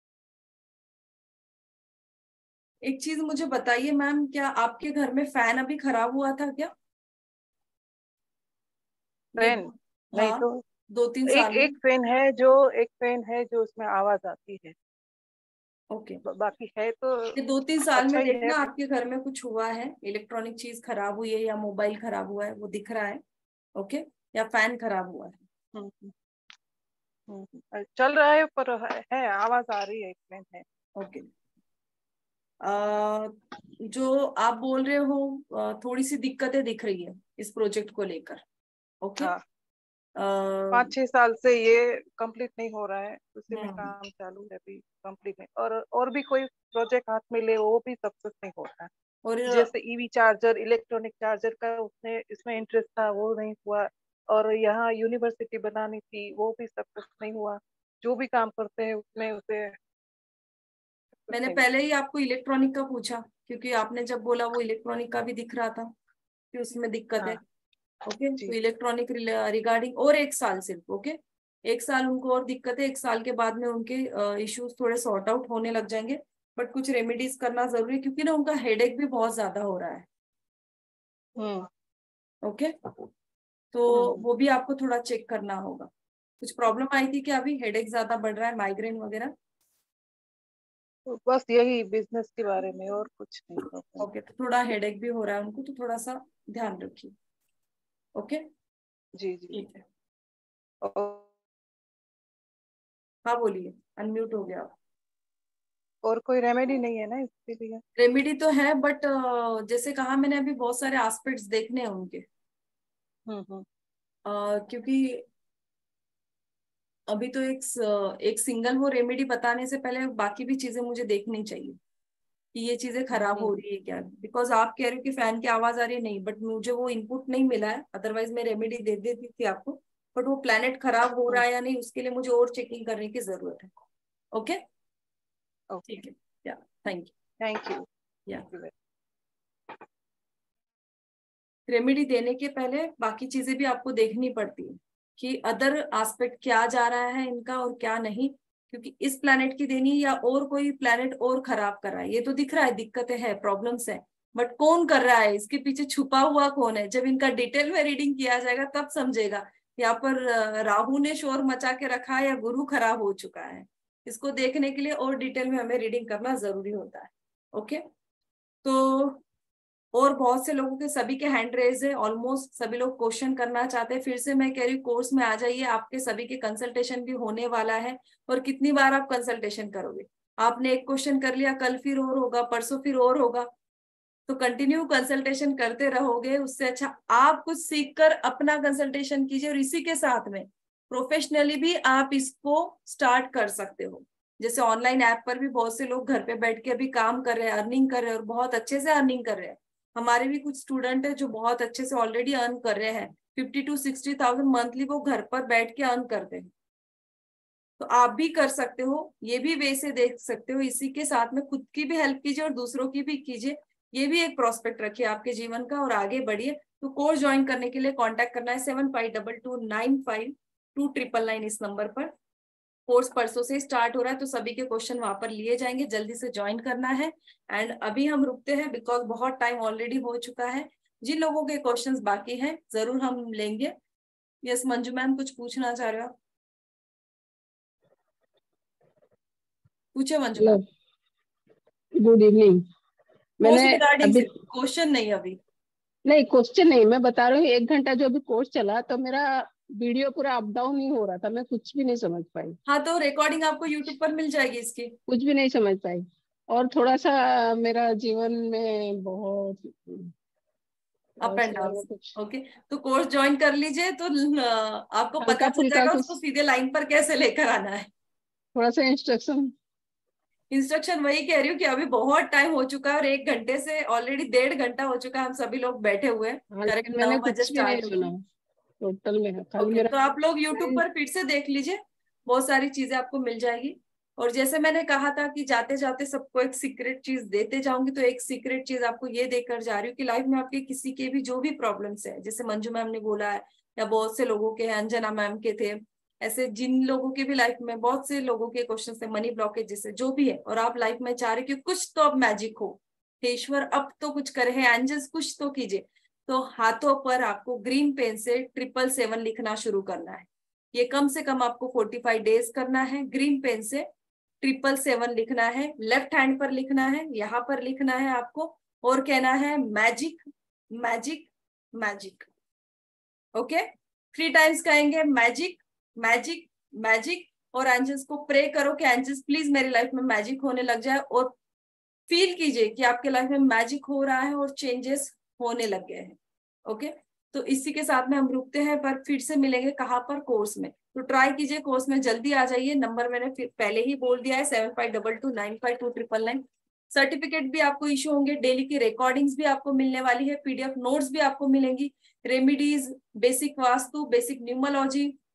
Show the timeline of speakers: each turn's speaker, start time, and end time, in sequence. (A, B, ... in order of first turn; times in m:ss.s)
0:02.8-0:06.7 A
0:09.4-0:10.6 B
0:09.4-0:11.8 A
0:11.3-0:14.8 B
0:15.9-0:16.2 A
0:16.3-0:17.4 B
0:17.4-0:23.2 A
0:18.0-0:18.6 B
0:23.8-0:25.4 A
0:25.8-0:26.1 B
0:27.3-0:30.6 B
0:31.0-0:31.3 A
0:32.6-0:38.4 A
0:39.0-0:39.3 A
0:40.2-0:40.9 A
0:40.7-0:48.9 B
0:43.5-0:43.9 A
0:49.2-0:49.7 A
0:49.5-0:59.8 B
1:01.3-1:01.7 B
1:01.3-1:05.9 A
1:06.5-1:07.4 A
1:08.1-1:20.1 A
1:22.4-1:22.7 A
1:23.7-1:25.9 A
1:23.9-1:24.2 B
1:26.4-1:29.3 A
1:31.1-1:34.1 B
1:34.0-1:37.1 A
1:38.2-1:38.4 A
1:39.2-1:39.6 B
1:39.5-1:39.8 A
1:40.8-1:41.3 B
1:43.3-1:44.7 A
1:46.0-1:47.8 B
1:48.0-1:52.2 A
1:53.3-1:53.6 B
1:54.3-1:55.2 A
1:57.1-2:01.8 A
2:02.6-2:13.7 A
2:03.2-2:03.5 B
2:14.3-2:14.6 A
2:15.9-2:17.1 A
2:17.4-2:17.8 B
2:21.7-2:47.8 A
2:48.6-2:49.2 A
2:49.9-3:03.5 A
3:04.3-3:26.5 A
3:27.8-3:42.1 A
3:42.9-3:53.7 A
3:54.4-3:56.1 A
4:00.0-4:00.6 A
4:00.4-4:00.6 C
4:02.0-4:02.6 C
4:03.4-4:04.3 C
4:03.4-4:05.4 A
4:06.1-4:12.6 C
4:12.7-4:14.9 A
4:15.1-4:20.1 C
4:21.2-4:22.2 C
4:21.2-4:27.9 A
4:25.2-4:26.2 C
4:28.6-4:29.5 C
4:30.5-4:38.1 A
4:36.5-4:38.2 C
4:38.8-4:39.9 C
4:39.6-5:13.9 A
5:14.4-5:20.2 A
5:20.8-5:22.3 A
5:23.4-5:31.3 A
5:32.1-5:55.1 A